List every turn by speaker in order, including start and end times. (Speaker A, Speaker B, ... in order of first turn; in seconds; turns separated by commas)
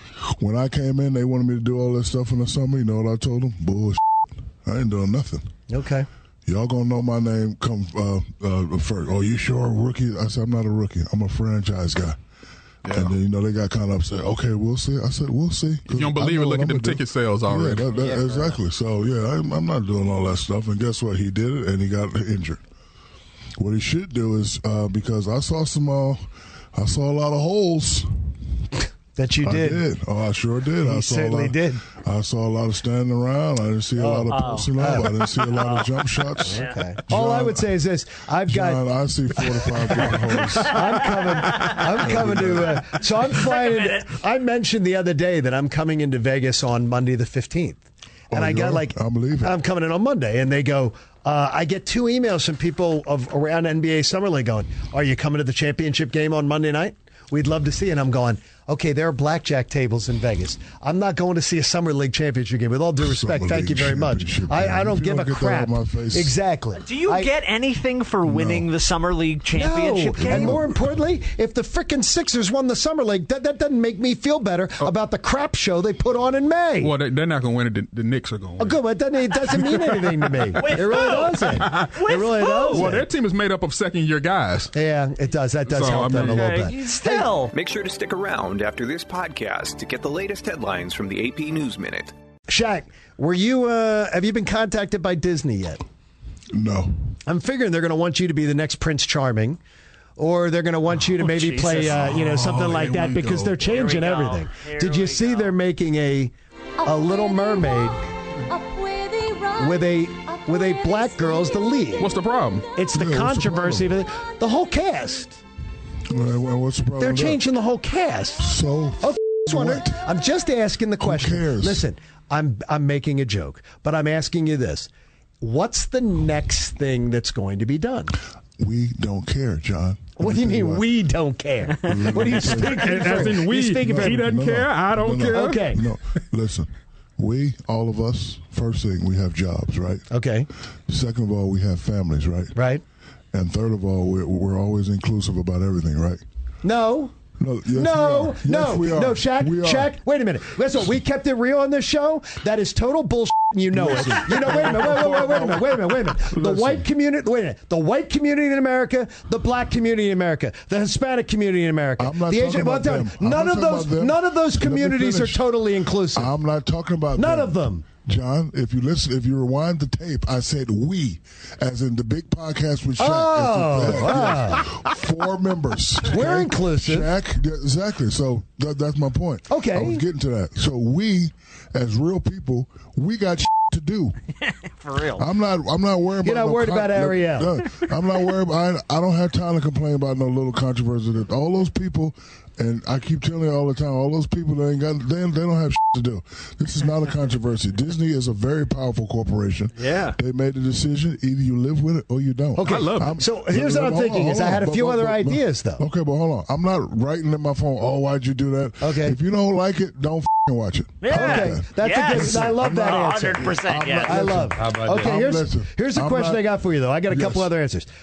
Speaker A: 0.2-4.0, Speaker A: 4.6-5.5, Speaker B: 5.7-6.1, Speaker A: 6.5-12.2, Speaker A: 12.8-22.6, Speaker C: 15.9-18.1, Speaker A: 23.6-28.3, Speaker B: 29.1-29.8, Speaker A: 29.4-37.8, Speaker B: 30.8-31.8, Speaker B: 34.0-38.8, Speaker D: 34.3-34.7, Speaker D: 36.5-36.8, Speaker A: 38.5-43.0, Speaker B: 39.9-67.3, Speaker D: 40.4-41.8, Speaker D: 43.4-44.1, Speaker A: 48.3-49.6, Speaker A: 63.0-66.4, Speaker D: 66.8-70.6, Speaker A: 68.2-68.7, Speaker B: 69.5-76.9, Speaker A: 70.2-70.9, Speaker C: 76.8-78.8, Speaker B: 78.6-83.0, Speaker C: 79.3-81.9, Speaker D: 80.5-82.9, Speaker C: 82.7-84.7, Speaker B: 84.7-87.3, Speaker C: 85.7-86.7, Speaker D: 86.1-87.5, Speaker E: 87.5-92.1, Speaker B: 92.5-95.8, Speaker A: 96.5-96.9, Speaker B: 97.2-99.6, Speaker B: 100.2-106.3, Speaker D: 101.2-102.0, Speaker C: 101.8-103.8, Speaker D: 103.7-105.5, Speaker B: 106.8-108.0, Speaker B: 109.5-112.1, Speaker C: 112.0-112.7, Speaker B: 112.7-115.4, Speaker A: 112.9-114.0, Speaker A: 116.1-117.4, Speaker B: 117.0-118.5, Speaker A: 118.4-120.0, Speaker B: 119.0-124.9, Speaker A: 121.0-121.8, Speaker B: 125.4-128.1, Speaker A: 128.6-130.9, Speaker B: 130.2-134.3, Speaker A: 131.8-140.1, Speaker C: 132.1-135.8, Speaker B: 135.3-135.8, Speaker B: 140.1-140.5, Speaker A: 140.9-142.6, Speaker B: 142.5-142.8, Speaker A: 143.3-146.2, Speaker B: 146.6-147.1, Speaker A: 147.4-149.9, Speaker B: 147.7-166.3, Speaker A: 153.7-156.9, Speaker A: 162.0-165.4, Speaker A: 166.1-184.1, Speaker B: 167.2-167.8, Speaker B: 173.0-174.7, Speaker B: 176.1-177.1, Speaker B: 179.5-180.0, Speaker D: 184.4-185.2, Speaker A: 185.2-216.5, Speaker B: 186.2-187.6, Speaker D: 199.8-200.2, Speaker B: 202.6-205.8, Speaker C: 202.6-203.2, Speaker B: 208.8-209.2, Speaker D: 211.0-214.3, Speaker B: 211.1-217.9, Speaker A: 217.1-217.5